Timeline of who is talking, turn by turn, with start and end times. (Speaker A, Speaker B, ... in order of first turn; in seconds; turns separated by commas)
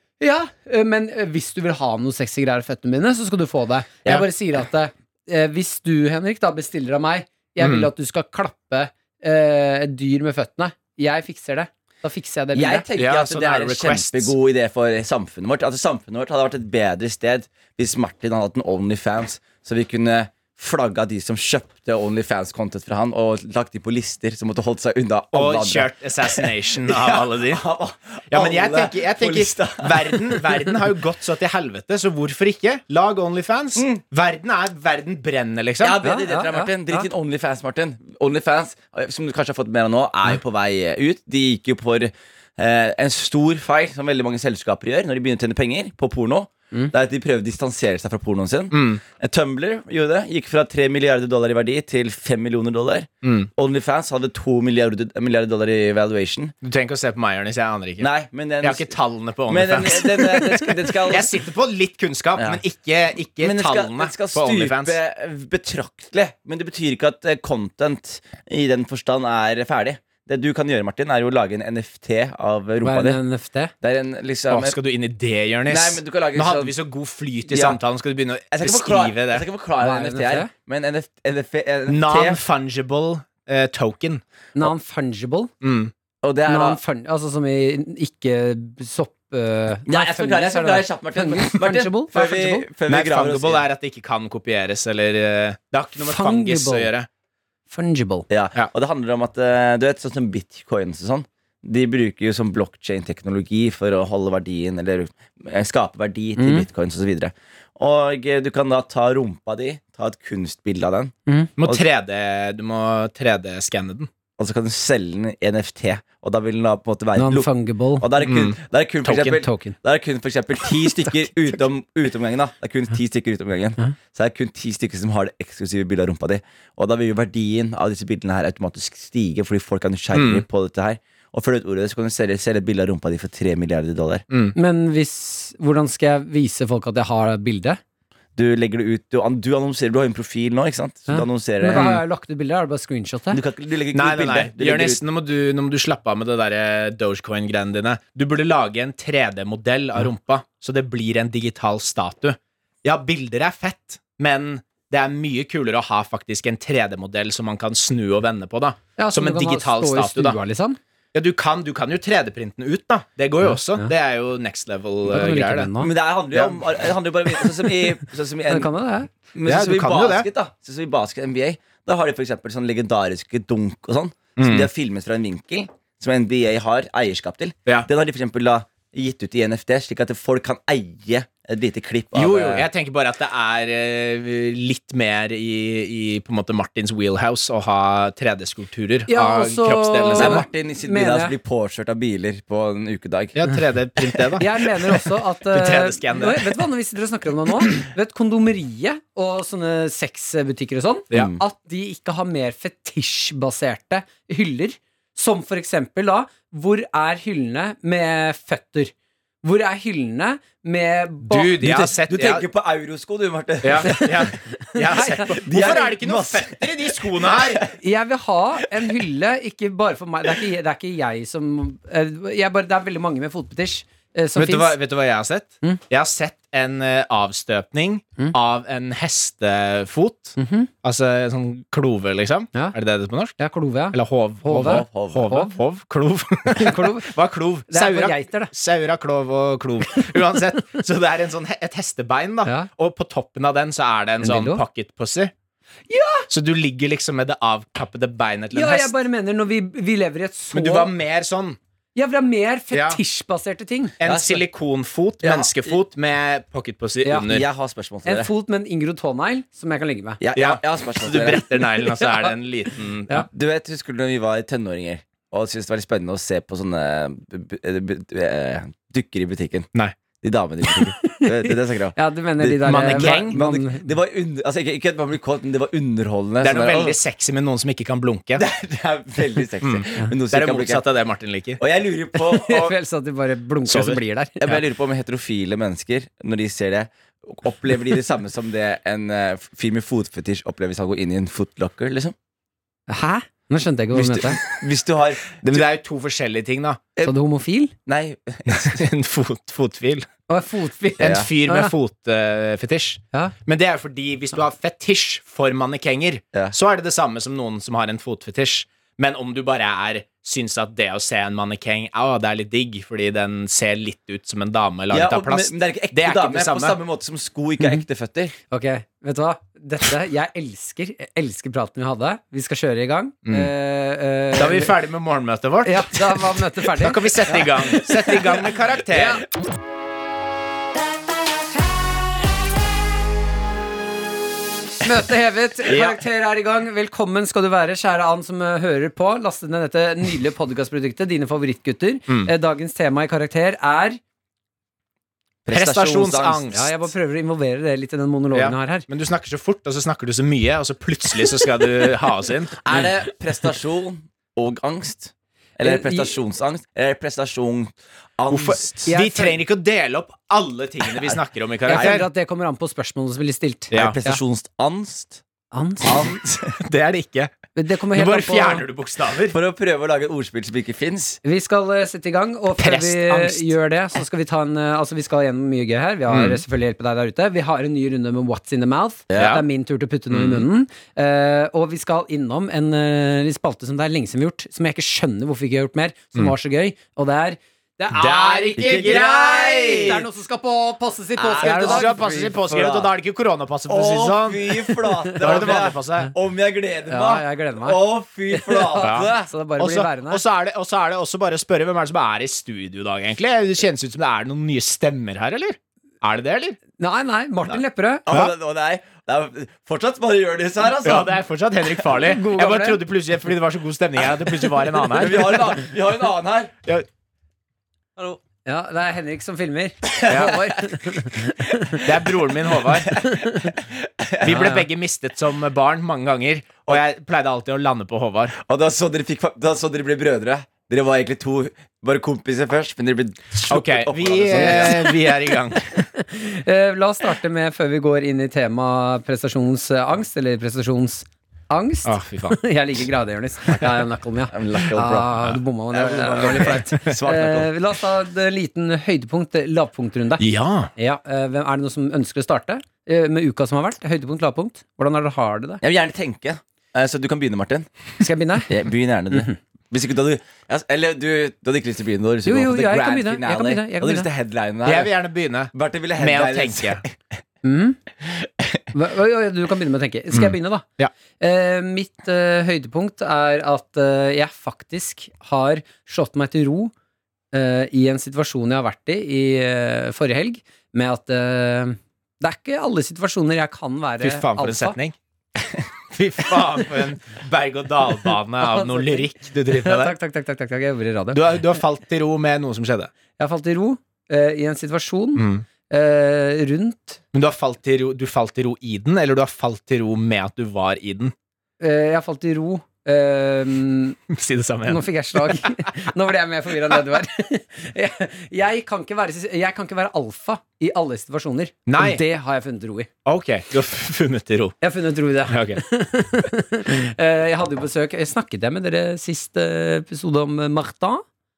Speaker A: 0.2-12.9, Speaker B: 7.6-7.9, Speaker C: 12.5-30.7, Speaker B: 13.0-14.3, Speaker B: 25.3-27.6, Speaker B: 28.3-36.0, Speaker C: 33.8-34.0, Speaker C: 35.8-56.5, Speaker A: 36.0-37.1, Speaker B: 48.7-49.0, Speaker B: 53.2-53.5, Speaker B: 56.6-58.1, Speaker C: 58.0-58.9, Speaker B: 58.6-65.0, Speaker C: 59.5-61.3, Speaker C: 63.4-73.2, Speaker A: 72.8-73.7, Speaker C: 73.8-74.8, Speaker B: 74.5-79.5, Speaker C: 75.7-76.7, Speaker C: 77.5-77.8, Speaker C: 78.5-82.4, Speaker A: 79.8-80.5, Speaker B: 81.9-84.2, Speaker A: 84.5-85.5, Speaker B: 85.6-85.9, Speaker C: 86.2-86.8, Speaker A: 86.5-92.7, Speaker C: 89.9-93.6, Speaker B: 92.9-97.1, Speaker A: 96.0-96.9, Speaker A: 97.7-98.3, Speaker C: 98.3-111.8, Speaker A: 106.4-106.7, Speaker B: 111.6-114.1, Speaker C: 114.4-134.2, Speaker A: 117.1-118.1, Speaker B: 118.2-118.5, Speaker A: 119.0-119.8, Speaker B: 130.1-130.4, Speaker B: 134.3-134.6, Speaker A: 134.5-137.8, Speaker C: 138.3-141.9, Speaker A: 141.1-143.4, Speaker B: 141.7-142.0, Speaker C: 143.3-145.0, Speaker B: 143.9-160.4, Speaker A: 159.0-160.8, Speaker B: 161.1-165.7, Speaker A: 163.4-163.9, Speaker A: 165.1-165.9, Speaker C: 165.8-168.7, Speaker B: 166.3-166.6, Speaker A: 168.5-169.1, Speaker C: 169.3-182.7, Speaker B: 169.5-170.3, Speaker B: 174.4-174.7, Speaker B: 182.1-190.4, Speaker A: 189.1-191.3, Speaker C: 190.1-193.4, Speaker B: 193.3-196.5, Speaker A: 194.4-211.6, Speaker C: 201.1-201.4, Speaker B: 211.3-212.4, Speaker C: 211.6-214.3, Speaker B: 213.6-217.6, Speaker A: 213.8-215.4, Speaker C: 215.4-217.8, Speaker A: 217.8-224.8, Speaker B: 224.3-233.3, Speaker A: 230.4-230.7, Speaker A: 233.4-235.5, Speaker B: 233.9-245.3, Speaker C: 234.6-235.2, Speaker A: 236.5-237.1, Speaker A: 237.7-238.5, Speaker A: 244.2-244.6, Speaker A: 245.9-246.3, Speaker B: 246.3-248.9, Speaker A: 248.5-250.9, Speaker B: 250.5-251.6, Speaker A: 251.9-253.9, Speaker B: 252.7-253.0, Speaker B: 254.0-257.4, Speaker C: 254.0-254.4, Speaker C: 255.2-255.8, Speaker A: 257.0-257.3, Speaker C: 257.2-258.3, Speaker A: 258.0-260.2, Speaker C: 260.2-261.4, Speaker B: 260.4-263.2, Speaker A: 262.0-262.3, Speaker C: 263.2-269.7, Speaker C: 270.2-276.9, Speaker A: 271.0-273.9, Speaker B: 272.5-273.4, Speaker B: 276.4-278.4, Speaker C: 278.4-280.8, Speaker B: 279.6-281.6, Speaker C: 281.6-282.8, Speaker A: 282.1-284.4, Speaker B: 283.6-284.6, Speaker C: 284.4-292.1, Speaker A: 292.9-294.4, Speaker C: 293.9-295.7, Speaker B: 295.5-296.8, Speaker A: 297.0-297.7, Speaker C: 297.9-298.8, Speaker B: 298.5-300.1, Speaker A: 300.3-301.7, Speaker B: 301.0-316.8, Speaker C: 301.0-301.3, Speaker C: 314.9-318.3, Speaker A: 318.5-324.7, Speaker B: 323.2-323.5, Speaker B: 324.3-329.2, Speaker A: 325.6-327.3, Speaker A: 328.9-329.2, Speaker A: 334.8-344.0, Speaker B: 335.6-336.0, Speaker C: 345.4-346.5, Speaker B: 345.5-346.7, Speaker A: 346.5-348.8, Speaker B: 348.3-352.9, Speaker C: 352.6-358.9, Speaker A: 355.6-356.1, Speaker B: 358.3-362.0, Speaker A: 358.9-359.4, Speaker A: 361.7-364.2, Speaker C: 361.7-362.0, Speaker C: 363.7-365.2, Speaker A: 365.5-366.1, Speaker C: 365.8-366.6, Speaker B: 366.6-367.3, Speaker A: 367.6-368.6, Speaker B: 367.9-369.4, Speaker C: 369.3-371.2, Speaker A: 371.2-392.2, Speaker B: 372.6-373.5, Speaker B: 376.1-376.4, Speaker C: 379.1-379.4, Speaker B: 379.1-379.4, Speaker B: 380.1-380.4, Speaker B: 387.9-390.0, Speaker C: 388.6-390.0, Speaker C: 391.2-392.9, Speaker B: 391.4-394.7, Speaker C: 393.7-399.3, Speaker A: 395.0-395.7, Speaker B: 395.2-396.1, Speaker A: 396.9-400.2, Speaker B: 398.8-406.6, Speaker A: 406.8-408.0, Speaker C: 408.1-411.1, Speaker B: 410.8-415.5, Speaker A: 411.9-412.8, Speaker C: 414.9-416.5, Speaker A: 418.0-421.8, Speaker C: 419.9-420.6, Speaker B: 420.1-420.3, Speaker B: 421.8-423.0, Speaker C: 422.9-424.6, Speaker A: 423.1-423.5, Speaker B: 424.2-428.4, Speaker A: 424.3-424.6, Speaker C: 428.4-435.0, Speaker B: 433.4-435.7, Speaker A: 435.9-450.2, Speaker B: 441.8-442.4, Speaker C: 444.3-447.5, Speaker B: 450.2-450.7, Speaker A: 450.8-455.6, Speaker C: 455.6-457.7, Speaker A: 458.0-458.5, Speaker C: 458.5-464.9, Speaker A: 462.2-464.1, Speaker B: 464.6-466.8, Speaker C: 465.5-467.0, Speaker A: 467.4-467.8, Speaker C: 468.1-468.6, Speaker A: 468.7-470.6, Speaker B: 470.1-470.9, Speaker A: 471.2-476.7, Speaker A: 477.3-484.8, Speaker B: 484.0-484.9, Speaker B: 485.9-489.9, Speaker A: 488.4-491.3, Speaker B: 491.1-492.9, Speaker A: 493.2-497.0, Speaker B: 495.1-495.4, Speaker B: 497.1-501.1, Speaker A: 501.6-504.0, Speaker B: 504.1-505.7, Speaker A: 504.6-512.9, Speaker B: 511.6-512.0, Speaker B: 513.0-514.6, Speaker A: 514.6-521.0, Speaker B: 515.3-515.6